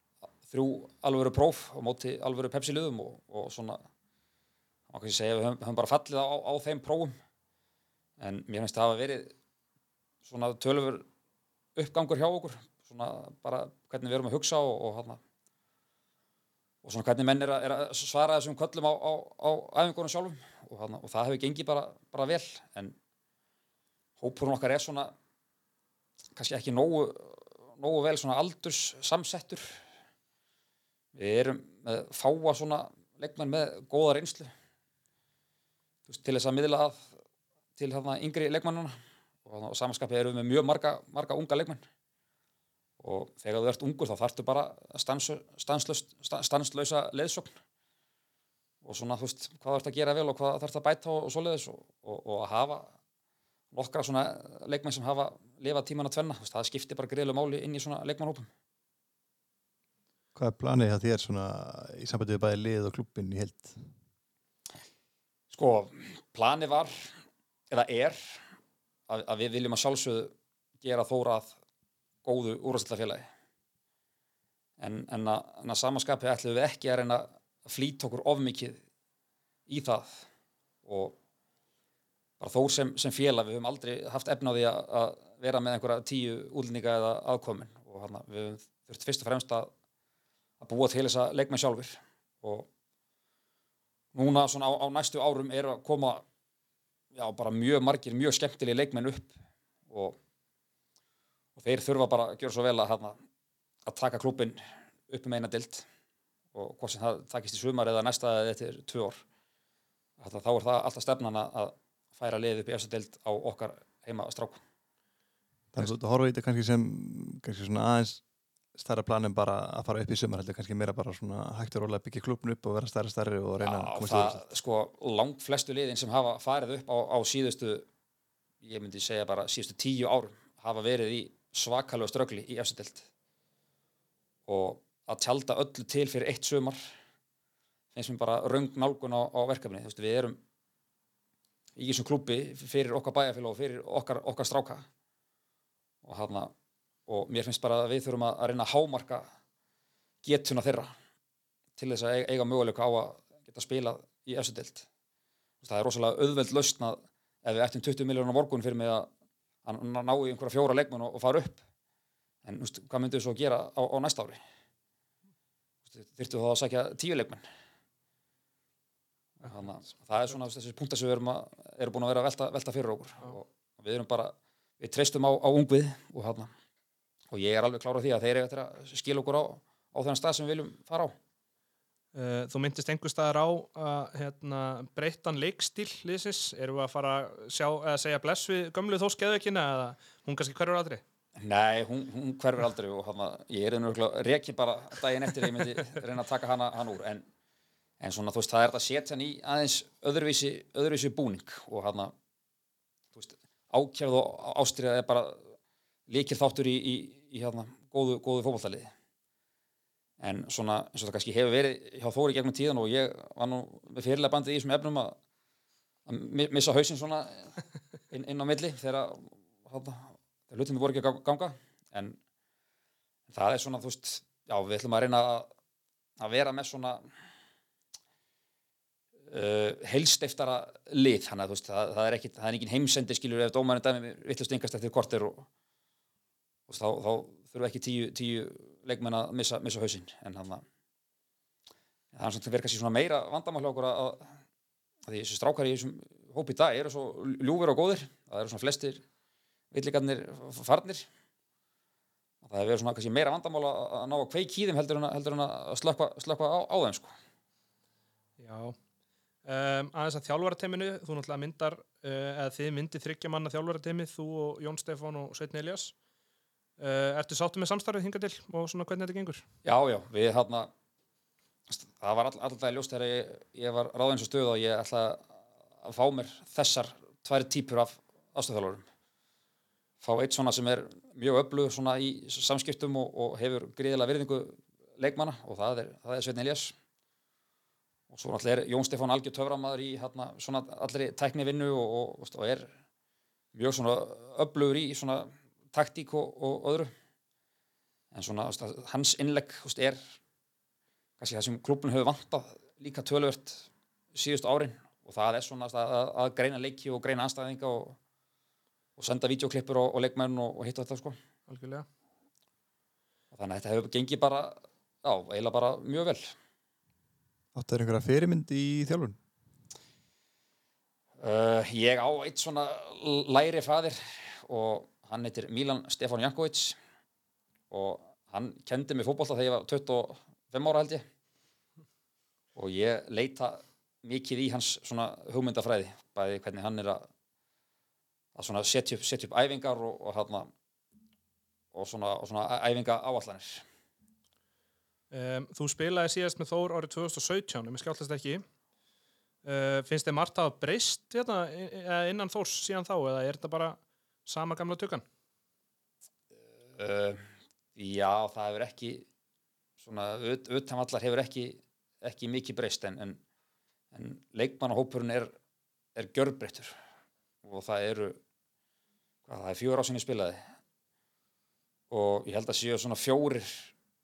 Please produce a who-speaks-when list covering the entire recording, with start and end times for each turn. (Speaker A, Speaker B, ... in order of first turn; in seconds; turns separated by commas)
Speaker A: 0.5-3.8, Speaker A: 4.9-7.2, Speaker A: 8.2-9.3, Speaker A: 10.2-11.1, Speaker A: 11.8-15.2, Speaker A: 16.8-23.0, Speaker A: 24.2-25.1, Speaker A: 26.4-29.8, Speaker A: 31.1-34.5, Speaker A: 36.1-37.1, Speaker A: 37.8-38.9, Speaker A: 39.5-41.8, Speaker A: 43.0-47.5, Speaker A: 48.8-53.0, Speaker A: 53.7-58.5, Speaker B: 60.4-63.9, Speaker A: 65.5-67.1, Speaker A: 67.7-68.4, Speaker A: 69.1-71.5, Speaker A: 72.2-73.3, Speaker A: 74.8-78.8, Speaker A: 79.7-80.3, Speaker A: 80.8-81.2, Speaker A: 82.4-89.7, Speaker A: 90.6-92.7, Speaker A: 94.1-96.2, Speaker A: 97.1-99.3, Speaker A: 99.9-100.2, Speaker A: 101.6-103.2, Speaker A: 103.9-105.9, Speaker A: 106.5-109.2, Speaker A: 110.2-114.6, Speaker B: 115.7-118.2, Speaker B: 118.8-124.4, Speaker A: 123.6-127.9, Speaker A: 128.6-133.1, Speaker A: 134.5-136.9, Speaker A: 137.9-140.4, Speaker A: 141.8-144.8, Speaker A: 146.0-146.5, Speaker A: 147.1-149.3, Speaker A: 150.2-150.9, Speaker A: 151.8-154.9, Speaker A: 155.6-159.1, Speaker A: 159.7-161.6, Speaker A: 162.4-164.4, Speaker A: 165.9-167.4, Speaker A: 169.4-176.5, Speaker A: 177.3-181.1, Speaker C: 182.1-191.0, Speaker A: 191.4-197.2, Speaker A: 198.0-202.1, Speaker A: 203.1-205.5, Speaker A: 206.1-208.9, Speaker A: 210.2-215.2, Speaker A: 216.1-222.2, Speaker A: 223.3-225.5, Speaker A: 226.2-227.0, Speaker A: 229.3-235.5, Speaker A: 236.7-240.6, Speaker A: 242.1-244.3, Speaker A: 245.1-249.0, Speaker A: 249.7-251.1, Speaker A: 252.4-257.1, Speaker C: 258.4-258.8, Speaker C: 259.4-265.9, Speaker C: 266.8-269.4, Speaker A: 269.6-270.7, Speaker A: 271.7-275.3, Speaker A: 275.8-278.9, Speaker A: 280.0-286.7, Speaker A: 288.1-292.7, Speaker A: 293.5-296.9, Speaker A: 298.1-300.0, Speaker A: 301.2-308.0, Speaker A: 309.0-311.2, Speaker C: 311.5-311.9, Speaker A: 313.3-316.3, Speaker B: 317.5-319.2, Speaker A: 321.2-326.8, Speaker A: 327.7-331.1, Speaker A: 332.6-337.1, Speaker A: 338.4-340.5, Speaker A: 341.7-343.6, Speaker C: 345.1-348.4, Speaker C: 349.4-355.0, Speaker A: 356.8-357.2, Speaker A: 357.8-359.1, Speaker A: 359.8-363.2, Speaker A: 363.9-365.3, Speaker A: 366.0-366.7, Speaker A: 367.4-368.2, Speaker A: 369.3-370.4, Speaker A: 371.9-373.7